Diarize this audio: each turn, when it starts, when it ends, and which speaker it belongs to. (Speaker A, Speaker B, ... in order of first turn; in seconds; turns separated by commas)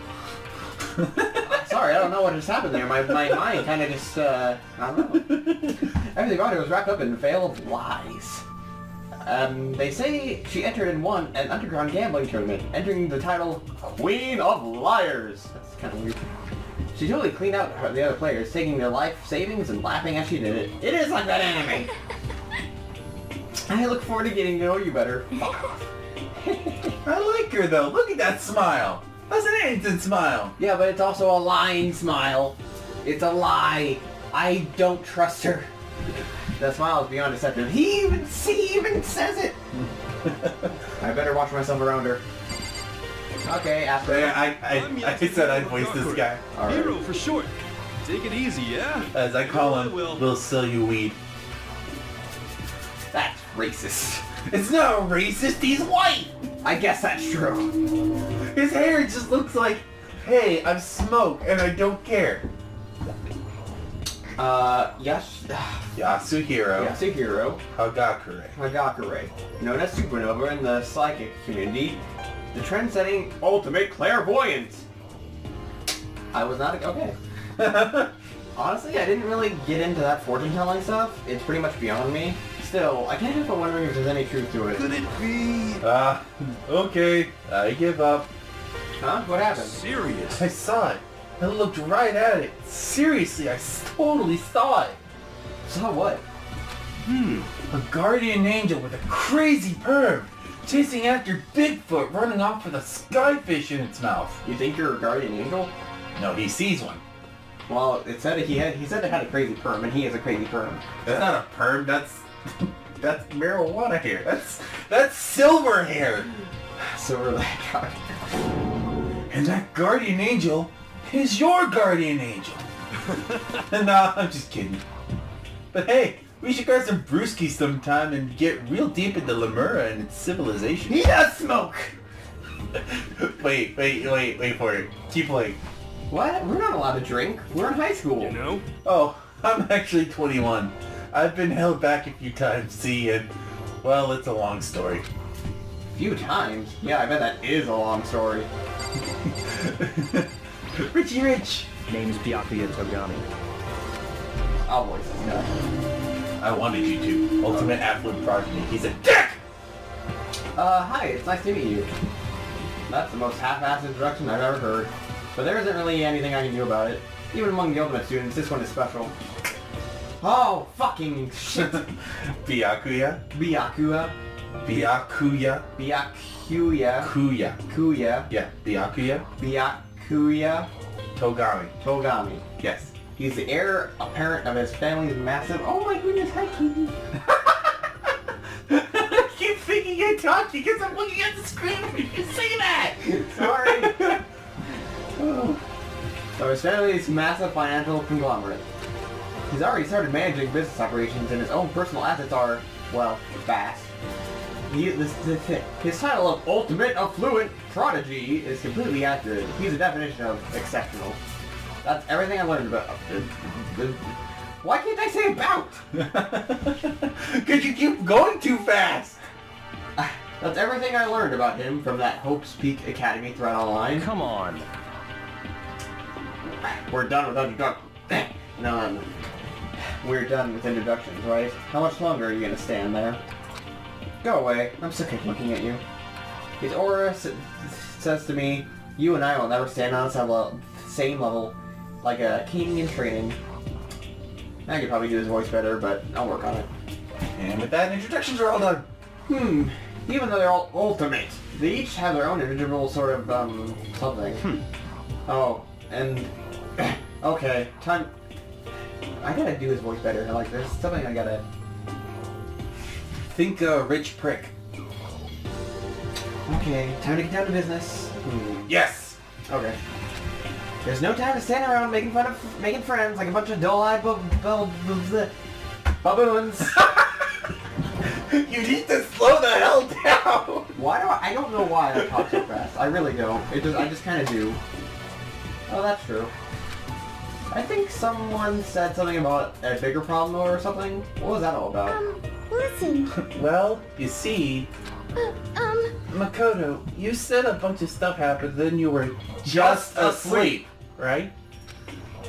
Speaker A: 1.0-1.4, Speaker B: 1.4-8.4, Speaker A: 5.3-5.7, Speaker B: 9.2-16.2, Speaker B: 16.9-21.9, Speaker B: 23.7-27.0, Speaker C: 25.4-25.7, Speaker A: 27.0-30.5, Speaker B: 30.6-35.7, Speaker B: 36.6-39.6, Speaker A: 39.7-40.7, Speaker B: 41.0-42.2, Speaker B: 43.4-44.5, Speaker A: 44.0-46.4, Speaker D: 44.6-47.5, Speaker B: 46.5-47.0, Speaker D: 48.0-50.3, Speaker A: 49.1-51.2, Speaker B: 53.1-54.2, Speaker A: 54.5-56.3, Speaker B: 56.6-57.7, Speaker A: 58.4-62.5, Speaker B: 64.4-65.9, Speaker A: 65.9-67.0, Speaker B: 66.8-67.6, Speaker A: 67.7-68.5, Speaker B: 68.5-72.0, Speaker B: 72.5-74.8, Speaker B: 76.3-77.2, Speaker A: 77.6-78.1, Speaker B: 78.5-84.8, Speaker D: 84.7-85.8, Speaker A: 85.8-88.3, Speaker B: 89.0-89.8, Speaker D: 89.5-90.5, Speaker A: 90.3-95.0, Speaker B: 95.7-96.2, Speaker D: 97.1-97.5, Speaker A: 97.7-104.4, Speaker B: 104.4-105.7, Speaker A: 106.2-107.0, Speaker B: 107.7-111.3, Speaker A: 111.0-116.3, Speaker B: 116.8-118.2, Speaker A: 119.3-122.7, Speaker A: 123.5-124.8, Speaker A: 125.7-131.1, Speaker B: 130.8-131.9, Speaker A: 132.7-135.6, Speaker B: 136.1-138.4, Speaker D: 138.2-138.7, Speaker A: 138.8-143.3, Speaker A: 143.8-145.1, Speaker B: 145.9-148.5, Speaker A: 149.2-151.7, Speaker E: 151.9-153.2, Speaker B: 154.7-155.5, Speaker A: 156.4-159.4, Speaker B: 157.5-157.7, Speaker B: 160.6-161.9, Speaker B: 162.9-169.1, Speaker B: 170.2-171.9, Speaker A: 171.5-173.2, Speaker B: 173.3-174.1, Speaker A: 174.6-175.7, Speaker B: 174.7-174.9, Speaker B: 175.7-177.1, Speaker A: 177.0-177.6, Speaker B: 177.7-178.3, Speaker A: 178.3-179.2, Speaker B: 179.4-180.7, Speaker A: 181.2-181.7, Speaker B: 181.8-182.4, Speaker A: 182.6-182.9, Speaker B: 183.1-187.0, Speaker A: 187.2-188.1, Speaker A: 188.7-194.2, Speaker B: 193.0-194.2, Speaker B: 195.2-195.6, Speaker B: 196.4-198.6, Speaker B: 199.5-203.9, Speaker B: 204.7-211.2, Speaker B: 211.8-215.8, Speaker A: 215.9-219.2, Speaker B: 220.0-224.1, Speaker E: 224.0-224.6, Speaker B: 226.6-229.1, Speaker B: 229.8-233.2, Speaker B: 234.2-235.8, Speaker B: 236.6-243.4, Speaker B: 244.7-246.7, Speaker A: 247.3-248.8, Speaker B: 249.3-254.4, Speaker B: 255.3-258.1, Speaker B: 259.2-261.4, Speaker A: 263.2-264.5, Speaker B: 266.5-268.7, Speaker A: 268.6-269.2, Speaker B: 269.5-269.8, Speaker B: 270.8-275.3, Speaker B: 276.0-277.0, Speaker A: 276.8-277.1, Speaker A: 278.0-280.7, Speaker B: 280.7-284.6, Speaker A: 281.9-282.2, Speaker B: 285.7-286.3, Speaker B: 287.5-292.0, Speaker C: 291.9-293.2, Speaker A: 293.1-294.7, Speaker C: 295.1-295.9, Speaker A: 296.1-301.3, Speaker B: 299.4-300.6